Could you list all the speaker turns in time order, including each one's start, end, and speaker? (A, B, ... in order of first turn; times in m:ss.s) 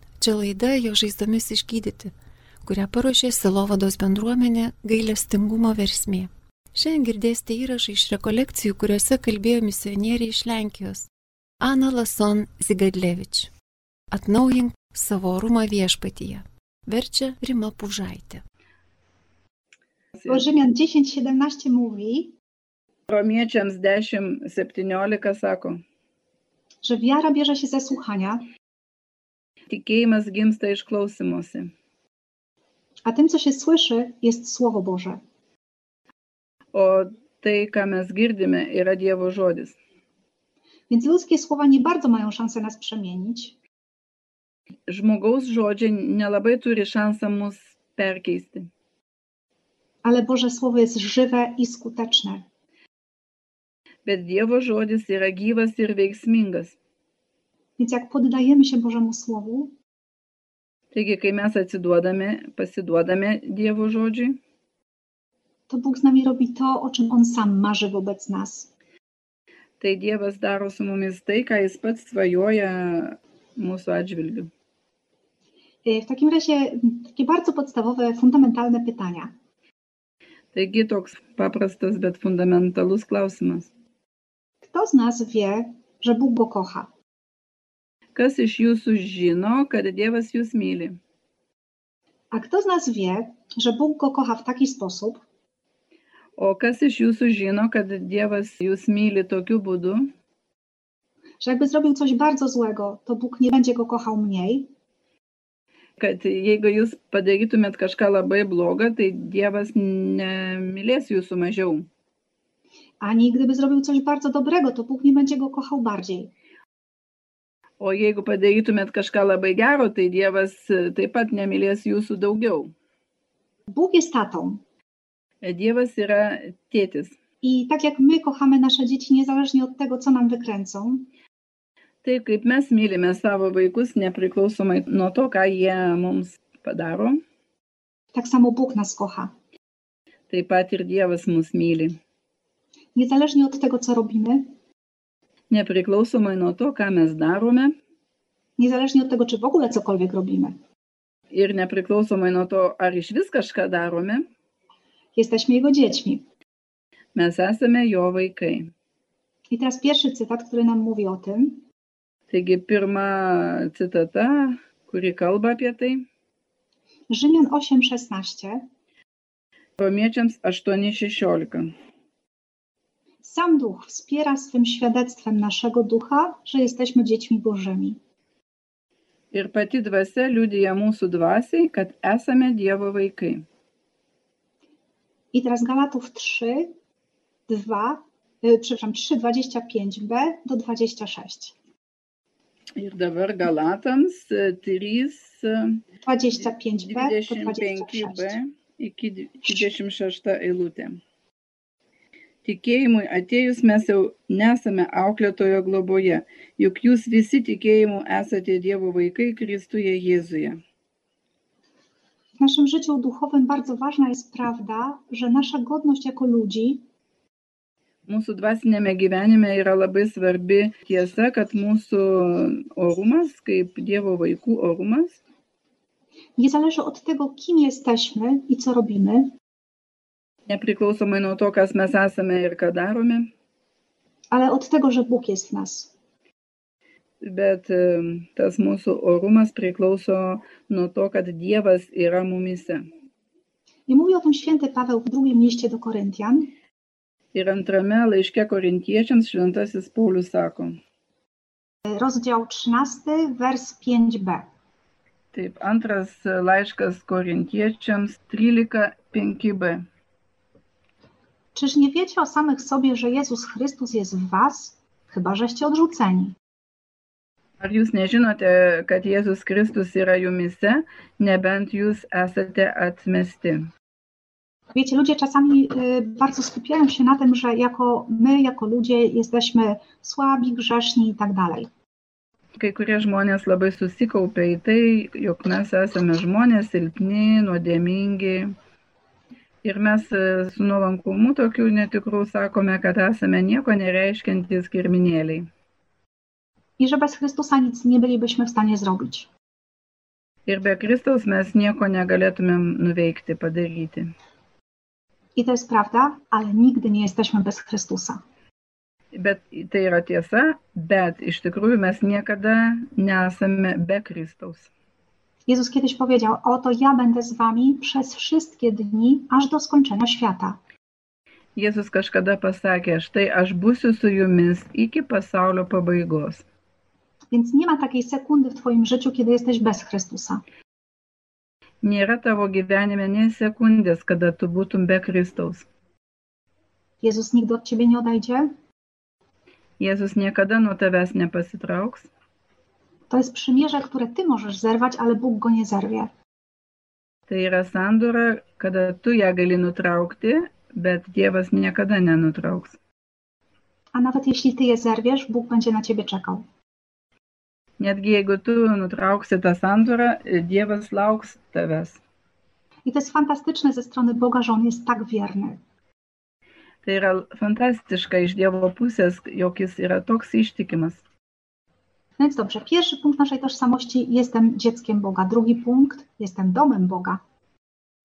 0:00.2-0:02.1 A
0:02.6-0:11.1 A
0:11.6-0:13.5 A
0:14.1-0:18.4 A
0:20.2-0:20.4 B
0:20.3-0:22.3 C
0:23.1-0:25.8 B
0:26.8-0:28.4 C
0:29.7-0:31.7 B
0:33.0-0:35.2 C
0:36.7-0:39.8 B
0:40.9-0:43.6 C
0:44.9-0:48.7 B
0:50.0-0:52.4 C
0:54.0-0:56.8 B
0:57.8-0:59.7 C
1:00.9-1:04.4 B
1:05.7-1:08.7 C
1:09.8-1:14.5 B
1:15.8-1:19.3 C
1:20.5-1:23.7 B
1:24.6-1:26.9 C
1:28.2-1:31.0 B
1:32.3-1:35.2 C
1:36.4-1:40.1 B
1:41.4-1:44.7 C
1:46.0-1:51.9 B
1:53.0-1:56.3 C
1:57.8-2:02.7 B
2:03.7-2:04.6 C
2:05.4-2:07.2 B
2:07.4-2:11.1 C
2:12.0-2:17.2 B
2:18.1-2:19.3 C
2:20.3-2:22.0 B
2:23.0-2:24.5 C
2:25.5-2:27.7 B
2:28.6-2:30.6 C
2:31.3-2:34.2 B
2:35.2-2:36.2 C
2:37.2-2:38.7 B
2:39.5-2:41.6 C
2:42.3-2:46.1 B
2:47.1-2:48.7 C
2:49.8-2:51.7 B
2:53.2-2:58.0 C
2:59.3-3:03.5 B
3:05.3-3:06.7 C
3:07.5-3:11.6 C
3:12.8-3:15.8 B
3:16.0-3:18.4 C
3:16.8-3:21.0 B
3:22.4-3:30.6 B
3:32.4-3:36.8 C
3:38.1-3:45.2 B
3:46.4-3:49.3 C
3:50.5-3:53.3 B
3:54.3-3:55.9 C
3:57.2-4:02.8 B
4:03.9-4:06.5 C
4:07.3-4:10.8 B
4:11.9-4:14.5 C
4:15.3-4:19.9 B
4:21.6-4:26.4 C
4:27.6-4:33.7 B
4:34.8-4:41.7 C
4:42.6-4:48.6 B
4:49.6-4:55.5 B
4:56.8-4:59.3 C
5:00.5-5:04.1 B
5:05.4-5:08.2 C
5:09.1-5:14.7 B
5:15.5-5:20.6 C
5:21.6-5:26.4 B
5:27.3-5:30.4 C
5:31.8-5:35.7 B
5:37.0-5:38.5 C
5:39.8-5:42.1 B
5:43.1-5:46.1 C
5:47.3-5:52.8 B
5:53.9-5:56.4 C
5:57.8-6:02.0 B
6:02.9-6:05.6 C
6:06.8-6:11.0 B
6:12.2-6:17.2 C